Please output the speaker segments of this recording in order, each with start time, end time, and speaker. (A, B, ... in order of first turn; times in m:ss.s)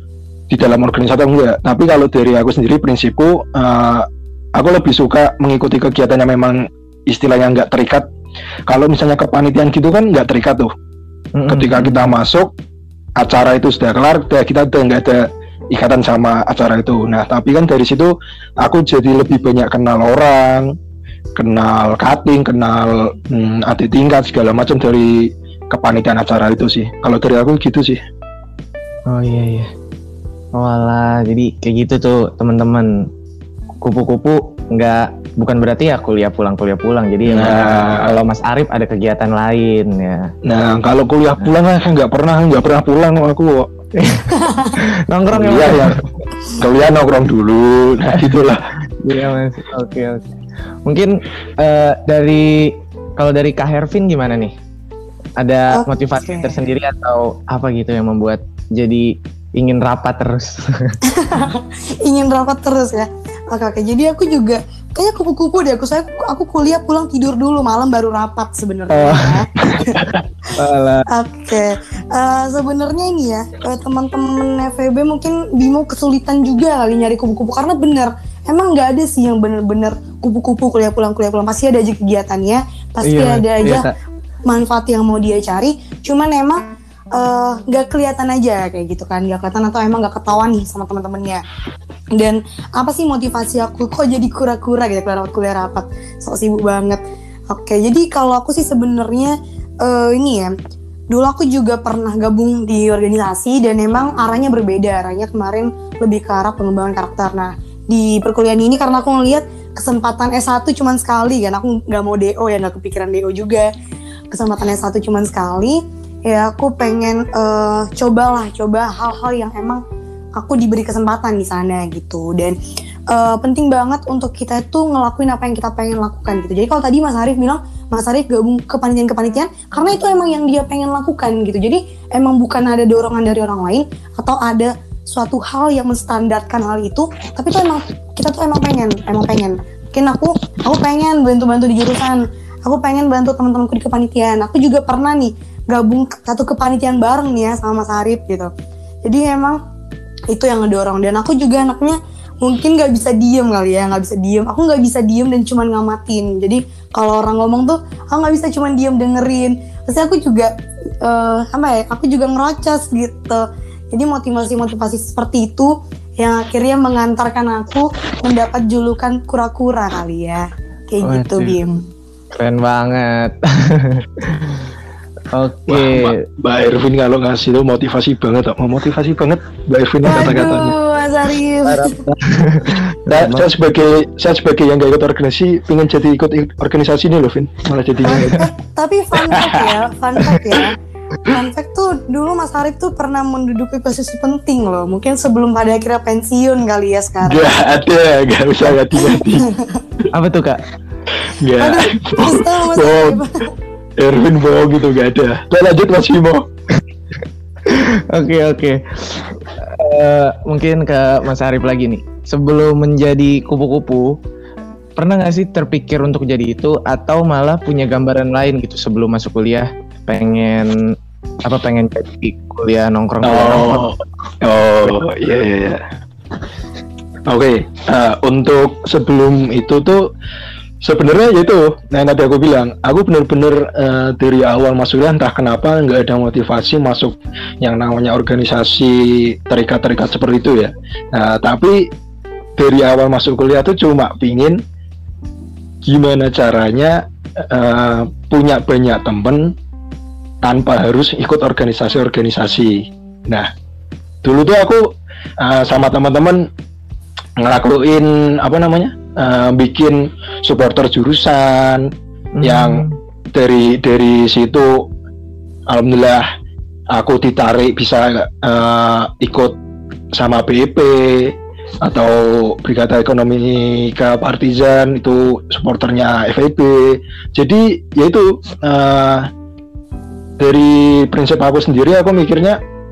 0:00.5-0:08.1 A
0:08.7-0:10.7 A
0:11.3-0:12.2 B
0:11.5-0:12.5 A
0:13.2-0:20.7 A
0:21.3-0:28.0 A
0:29.1-0:29.7 B
0:30.5-0:33.1 B
0:33.8-0:40.3 B
0:37.2-0:38.1 A
0:40.4-0:43.7 A
0:44.0-0:46.1 B
0:44.4-0:44.7 C
0:45.3-0:46.0 A
0:46.6-0:48.6 A
0:48.9-0:50.2 B
0:50.8-0:54.5 B
0:55.4-1:01.0 B
0:55.7-0:56.6 C
1:01.1-1:10.0 C
1:08.9-1:09.3 B
1:09.7-1:10.2 A
1:10.5-1:11.1 B
1:11.1-1:23.8 C
1:23.0-1:23.9 B
1:24.5-1:31.4 C
1:32.1-1:40.5 C
1:41.1-1:53.7 C
1:54.3-1:59.8 C
2:00.4-2:02.6 C
2:03.1-2:28.5 C
2:29.0-2:29.6 C
2:30.3-2:40.5 C
2:41.0-2:51.8 C
2:51.0-2:51.6 B
2:52.3-2:54.7 B
2:55.3-2:56.2 B
2:55.7-3:00.8 A
3:00.0-3:02.0 C
3:01.6-3:03.5 B
3:03.1-3:08.5 A
3:08.0-3:17.5 C
3:09.2-3:09.8 A
3:17.2-3:19.5 A
3:18.9-3:19.8 C
3:20.1-3:20.6 B
3:21.2-3:23.2 A
3:21.6-3:23.4 C
3:24.0-3:26.4 A
3:27.6-3:34.2 B
3:35.0-3:43.9 B
3:43.2-3:45.8 A
3:47.3-3:50.1 A
3:50.8-4:01.9 A
4:02.6-4:04.6 A
4:05.8-4:09.5 A
4:10.4-4:13.5 A
4:14.2-4:16.5 A
4:17.4-4:21.9 A
4:22.4-4:23.0 B
4:22.4-4:24.9 A
4:25.7-4:26.2 A
4:26.9-4:29.6 A
4:30.1-4:39.3 A
4:40.4-4:42.6 A